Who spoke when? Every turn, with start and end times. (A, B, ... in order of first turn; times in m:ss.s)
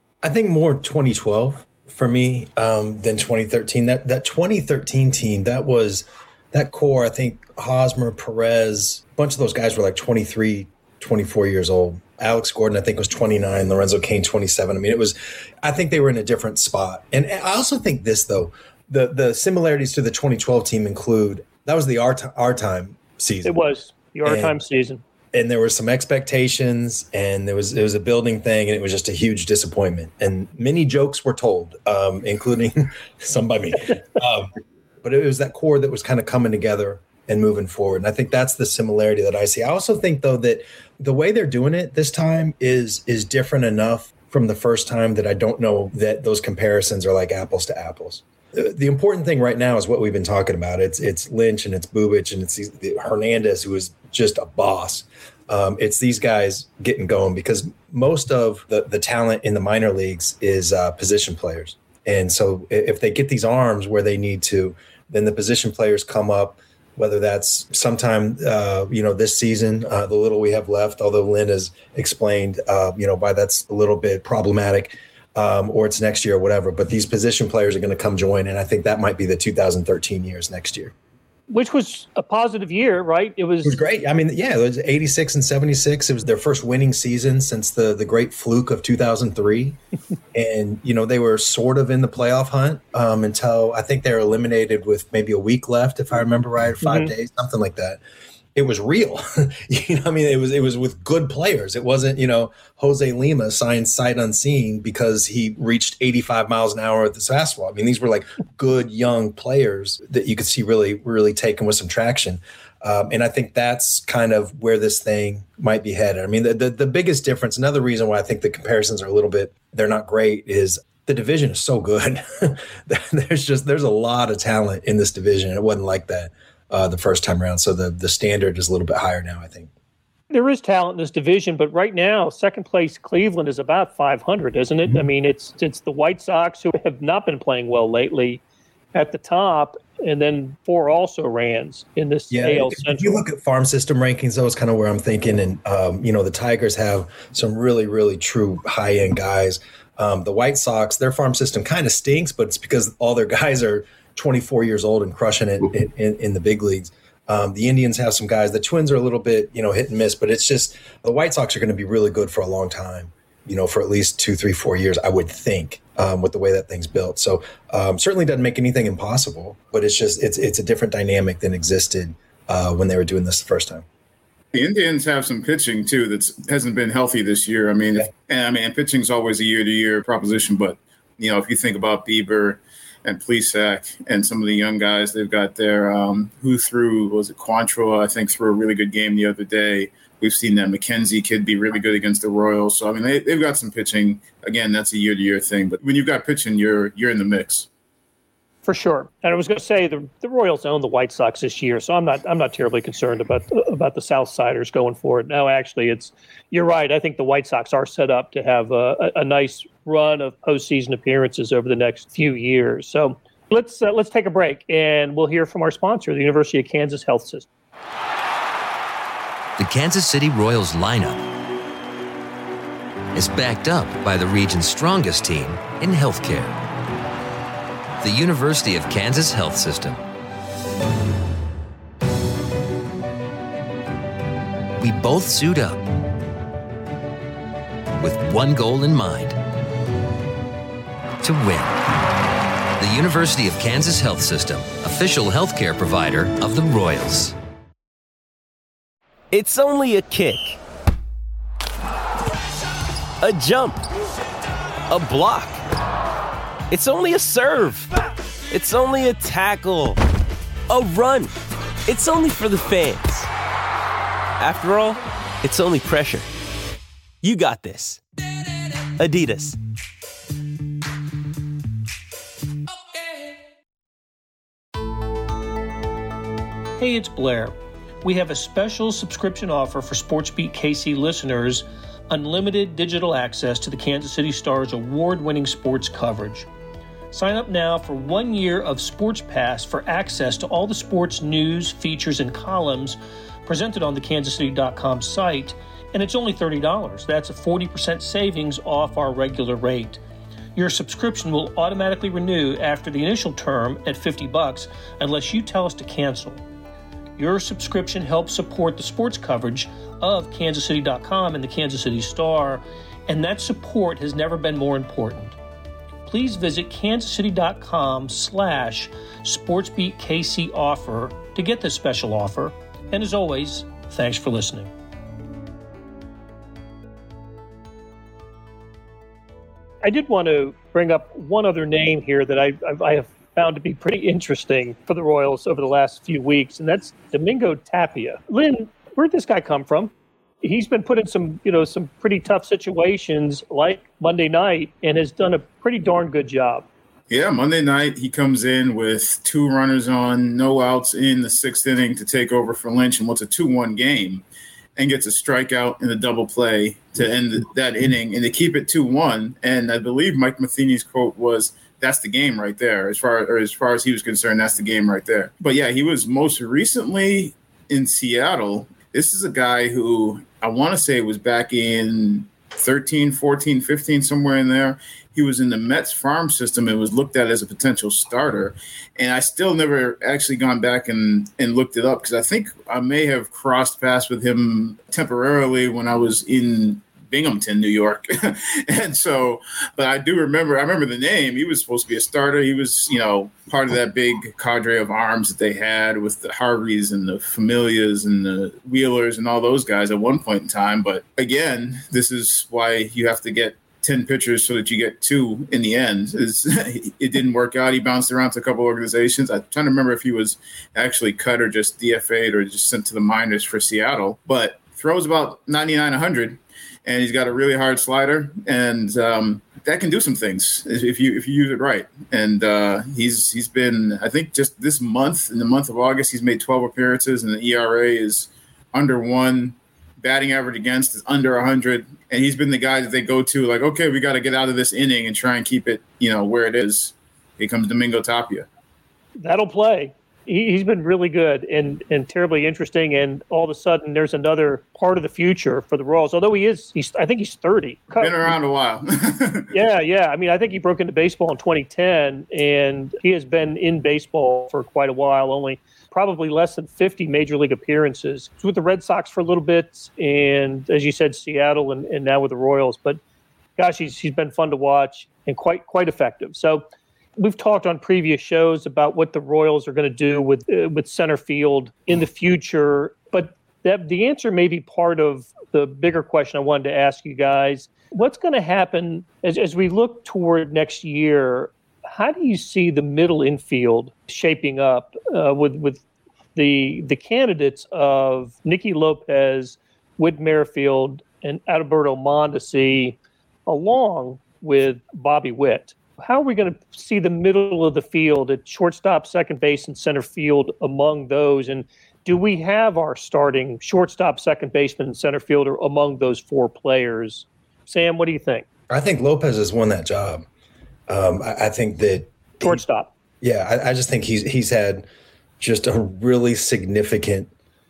0:00.2-0:23.5 A
0:23.4-0:25.0 B
0:24.2-0:24.6 A
0:25.3-1:20.9 A
1:21.5-1:23.8 B
1:23.6-1:29.8 A
1:30.3-1:38.0 A
1:36.8-1:37.1 B
1:38.5-2:09.7 A
2:10.3-2:18.4 B
2:18.9-2:23.2 B
2:22.3-2:53.8 A
2:54.5-3:17.7 C
3:18.6-3:37.5 B
3:39.6-3:41.2 D
3:43.1-3:46.6 D
3:48.0-3:50.0 D
3:54.8-3:55.8 D
3:58.0-3:59.4 D
4:01.2-4:01.8 D
4:02.8-4:07.3 D
4:09.3-4:10.6 E
4:13.2-4:13.8 E
4:14.9-4:15.6 E
4:16.7-4:17.9 E
4:18.5-4:20.0 E
4:20.7-4:21.3 E
4:21.9-4:23.3 E
4:24.4-4:26.3 E
4:27.2-4:28.0 E
4:29.0-4:29.6 E
4:36.8-4:46.5 B
4:47.1-5:00.0 B
5:00.5-5:06.4 B
5:07.2-5:15.4 B
5:16.0-5:24.7 B
5:29.8-5:39.9 B
5:40.4-5:46.6 B
5:47.1-5:54.2 C
5:54.8-7:18.5 C
7:19.2-7:28.3 B
7:28.0-7:29.5 C
7:29.5-7:43.0 B
7:43.6-8:05.8 B
8:06.3-8:28.4 B
8:28.7-8:30.2 A
8:30.9-8:32.6 A
8:32.4-8:32.9 B
8:33.2-8:34.8 A
8:35.4-8:37.3 A